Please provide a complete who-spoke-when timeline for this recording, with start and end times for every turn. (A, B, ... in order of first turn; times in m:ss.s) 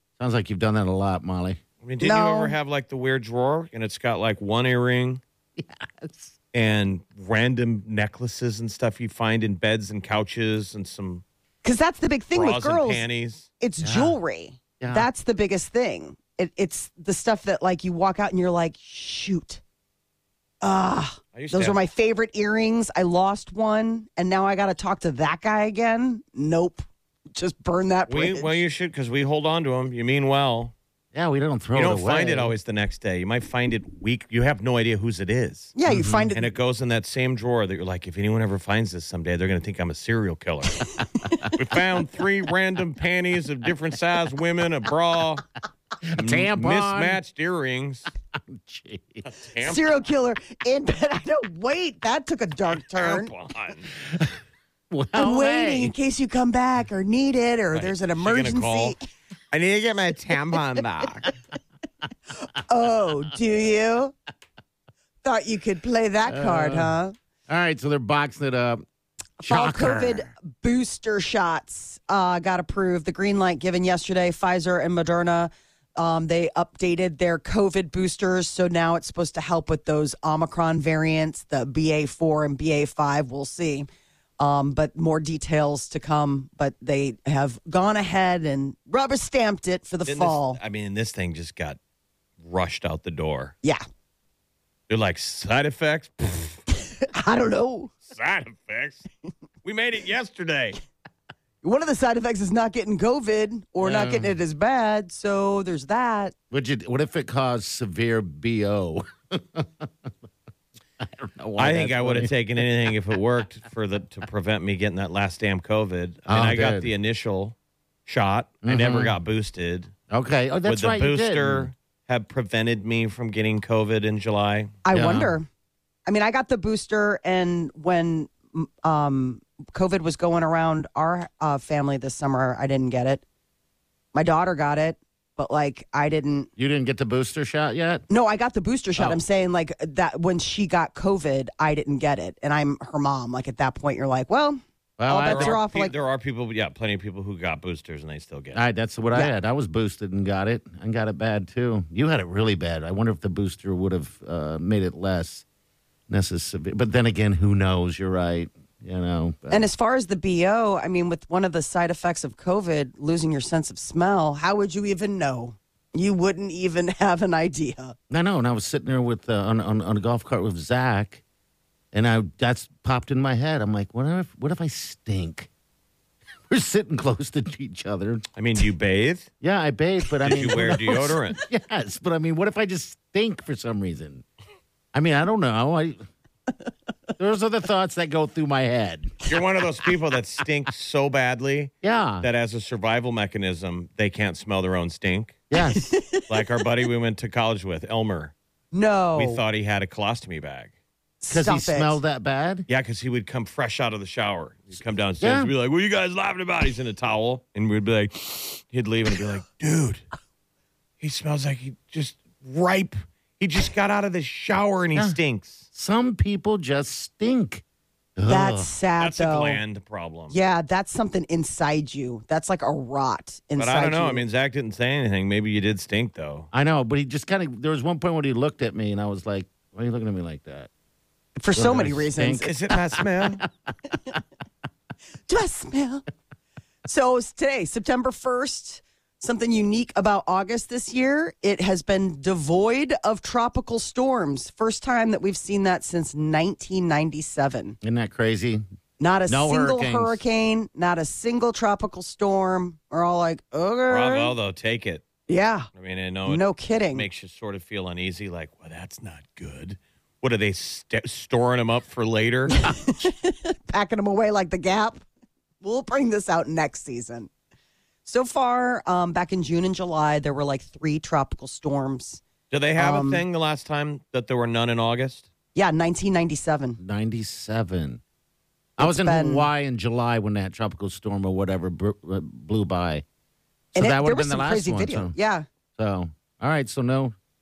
0:00.2-0:01.6 A
0:01.8-0:05.2 B
0:02.0-0:02.5 C
0:05.6-0:06.3 A
0:06.5-0:11.2 B
0:11.6-0:13.0 C
0:12.3-0:13.5 B
0:13.6-0:19.6 C
0:13.8-0:14.2 A
0:14.8-0:15.1 A
0:20.6-0:28.6 C
0:21.3-0:21.8 B
0:28.1-0:30.7 B
0:31.1-0:32.5 A
0:31.7-0:35.7 B
0:35.8-0:36.5 C
0:35.9-0:36.3 A
0:36.3-0:40.9 B
0:41.4-0:45.4 B
0:46.1-0:47.2 A
0:46.2-0:48.1 B
0:48.3-0:49.2 A
0:49.2-0:49.9 B
0:49.6-0:53.3 C
0:52.9-0:53.9 B
0:54.9-0:55.9 A
0:55.1-0:59.0 C
0:57.7-0:58.9 B
0:59.5-1:01.3 B
1:02.4-1:04.1 C
1:05.2-1:07.1 C
1:06.3-1:07.0 A
1:07.5-1:08.8 A
1:09.4-1:10.3 A
1:09.4-1:23.9 C
1:24.4-1:30.6 C
1:30.0-1:31.8 B
1:32.4-1:33.5 B
1:34.9-1:36.6 B
1:37.0-1:37.9 C
1:38.1-1:39.0 B
1:39.6-1:40.8 B
1:41.6-1:46.3 C
1:43.8-1:44.3 A
1:46.5-1:50.1 A
1:51.0-1:52.6 A
1:51.6-1:57.5 B
1:56.3-1:56.9 A
1:58.0-1:59.9 B
1:58.6-1:59.1 A
2:00.1-2:01.7 A
2:00.6-2:04.8 B
2:04.8-2:05.5 C
2:04.9-2:05.3 A
2:06.0-2:13.2 C
2:14.1-2:16.5 C
2:16.6-2:18.0 A
2:18.1-2:25.9 C
2:25.0-2:25.6 A
2:25.2-2:28.6 B
2:28.5-2:35.4 A
2:36.1-2:39.7 A
2:39.5-2:48.0 C
2:48.1-2:51.2 A
2:51.9-2:55.5 A
2:56.5-2:58.2 A
2:58.4-2:59.3 B
2:59.4-3:04.2 A
3:00.2-3:01.4 B
3:04.9-3:06.0 A
3:07.2-3:09.1 A
3:09.2-3:15.4 B
3:11.8-3:12.3 A
3:15.5-3:15.9 A
3:15.7-3:16.3 C
3:16.3-3:18.3 B
3:18.7-3:19.4 C
3:19.2-3:20.7 B
3:21.2-3:22.0 C
3:21.3-3:22.7 A
3:22.7-3:30.0 B
3:25.2-3:25.5 A
3:31.0-3:35.6 B
3:35.7-3:37.6 A
3:38.2-3:38.7 A
3:38.3-3:39.6 C
3:39.0-3:40.4 B
3:40.3-3:44.2 C
3:43.6-3:46.5 B
3:46.5-3:50.7 A
3:51.4-3:52.5 C
3:51.5-3:53.4 A
3:52.4-3:53.4 B
3:55.3-3:56.0 C
3:56.8-4:07.8 C
4:07.8-4:08.6 A
4:09.0-4:14.3 C
4:09.3-4:10.2 A
4:13.9-4:15.0 B
4:15.3-4:15.7 C
4:15.7-4:22.6 B
4:16.2-4:17.0 C
4:22.6-4:25.0 C
4:25.6-4:27.3 C
4:28.0-4:32.2 C
4:32.5-4:35.3 B
4:32.8-4:33.2 C
4:35.5-4:36.8 C
4:36.8-4:38.0 A
4:38.8-4:43.0 A
4:38.8-4:39.5 C
4:43.7-4:45.2 A
4:43.7-4:45.4 C
4:45.8-4:47.1 A